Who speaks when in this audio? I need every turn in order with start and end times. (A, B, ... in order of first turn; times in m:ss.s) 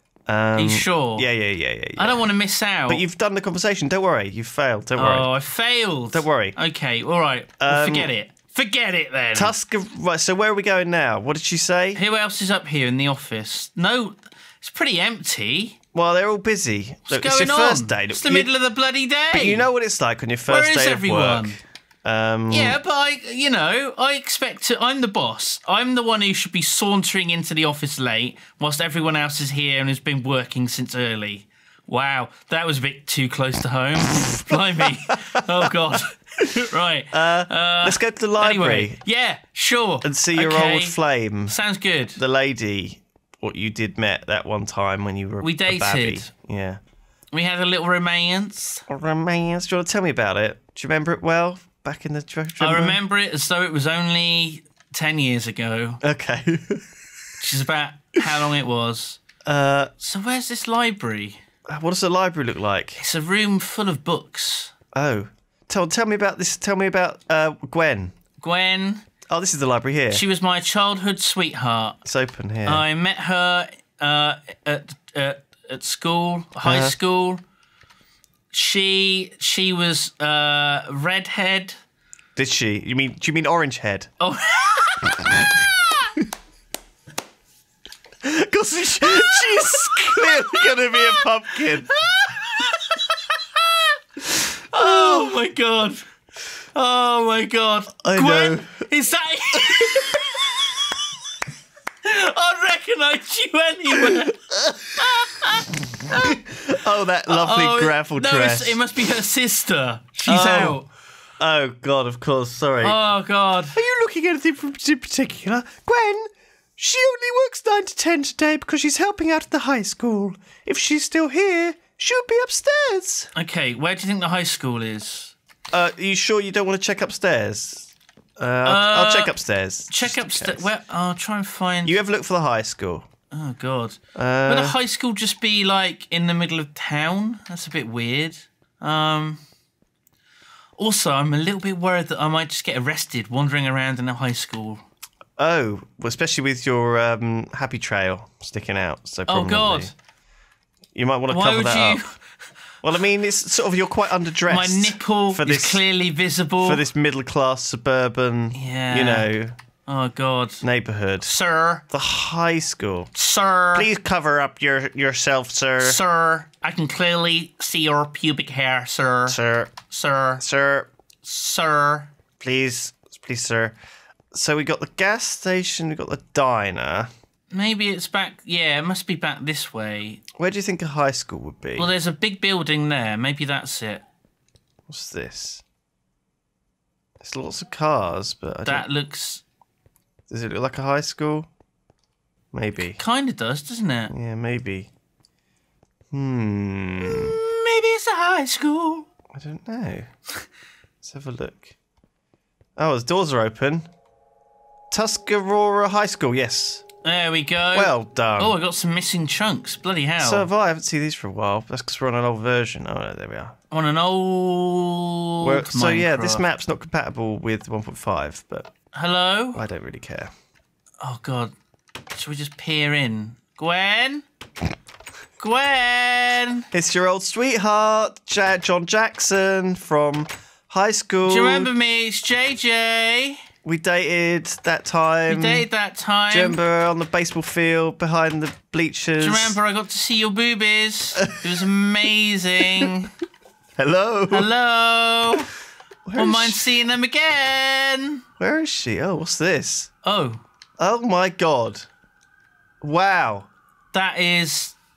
0:00.3-0:02.2 A
0:00.6-0:01.3 B
0:02.0-0:03.0 B
0:02.9-0:05.3 A
0:05.0-0:09.5 B
0:06.1-0:06.6 A
0:07.6-0:08.1 A
0:09.4-0:12.0 A
0:12.0-0:15.8 B
0:15.9-0:18.5 A
0:17.1-0:19.7 B
0:19.3-0:22.8 A
0:20.5-0:21.6 B
0:22.5-0:41.0 B
0:34.1-0:35.7 A
0:37.1-0:39.0 A
0:40.0-0:41.6 A
0:41.5-0:42.2 B
0:42.2-0:46.8 A
0:45.4-0:46.3 B
0:47.3-0:48.8 B
0:48.9-0:53.0 A
0:52.6-0:56.0 B
0:56.0-0:56.9 A
0:57.4-0:59.2 B
0:59.4-0:59.9 A
1:00.0-1:01.4 B
1:01.7-1:03.0 A
1:03.0-1:04.7 B
1:04.9-1:08.1 A
1:08.4-1:09.0 B
1:09.3-1:10.2 A
1:10.1-1:12.0 B
1:12.0-1:12.8 A
1:12.7-1:17.4 B
1:16.6-1:17.0 A
1:18.5-1:21.8 B
1:22.4-1:24.1 A
1:24.2-1:25.9 B
1:25.0-1:25.6 A
1:28.2-1:31.9 A
1:29.0-1:36.1 B
1:34.7-1:35.4 A
1:36.8-1:40.8 B
1:38.0-1:38.9 A
1:39.5-1:40.6 A
1:42.0-1:44.4 B
1:44.0-1:48.8 A
1:45.0-1:46.4 B
1:47.3-1:50.9 B
1:50.2-1:50.8 A
1:51.4-1:53.0 A
1:52.8-1:53.8 B
1:53.7-2:03.3 A
2:03.4-2:05.4 B
2:05.7-2:10.7 A
2:08.6-2:09.3 B
2:09.9-2:12.0 B
2:11.8-2:13.1 A
2:13.3-2:19.4 B
2:14.2-2:14.8 A
2:20.8-2:24.8 B
2:25.4-2:29.9 A
2:29.3-2:29.9 B
2:31.0-2:32.0 A
2:31.3-2:32.2 B
2:32.8-2:35.8 A
2:34.5-2:36.8 B
2:36.6-2:39.6 A
2:38.5-2:39.3 B
2:39.9-2:40.6 B
2:40.6-2:41.3 A
2:41.2-2:41.8 B
2:41.9-2:43.1 A
2:43.2-2:43.9 B
2:43.7-2:46.0 A
2:45.8-2:50.4 B
2:49.3-2:49.7 A
2:50.4-2:50.9 A
2:51.2-2:52.1 B
2:52.4-2:53.8 A
2:54.3-2:57.1 A
2:57.5-3:00.2 B
3:00.4-3:01.9 A
3:01.8-3:04.0 B
3:04.9-3:05.6 A
3:07.2-3:08.9 A
3:08.6-3:09.4 B
3:10.3-3:11.5 A
3:12.5-3:13.0 A
3:12.8-3:14.1 B
3:14.1-3:14.9 A
3:16.1-3:17.4 A
3:17.0-3:19.1 B
3:19.3-3:20.1 A
3:21.0-3:21.7 A
3:22.8-3:23.9 A
3:24.9-3:26.8 A
3:27.0-3:30.5 B
3:27.7-3:28.6 A
3:30.2-3:33.6 A
3:33.7-3:36.4 B
3:35.4-3:38.7 A
3:38.9-3:39.6 B
3:39.6-3:40.3 A
3:41.0-3:41.5 B
3:42.2-3:44.2 B
3:45.4-3:46.7 B
3:46.7-3:51.7 A
3:51.3-3:53.4 B
3:53.6-3:55.7 A
3:55.3-3:56.6 B
3:56.3-3:59.6 A
3:59.2-4:03.1 B
4:01.2-4:01.7 A
4:03.8-4:04.5 A
4:04.3-4:05.5 B
4:06.1-4:06.6 A
4:06.2-4:08.2 B
4:08.4-4:09.9 A
4:10.0-4:10.4 B
4:10.8-4:11.9 A
4:12.8-4:13.5 A
4:13.9-4:14.8 B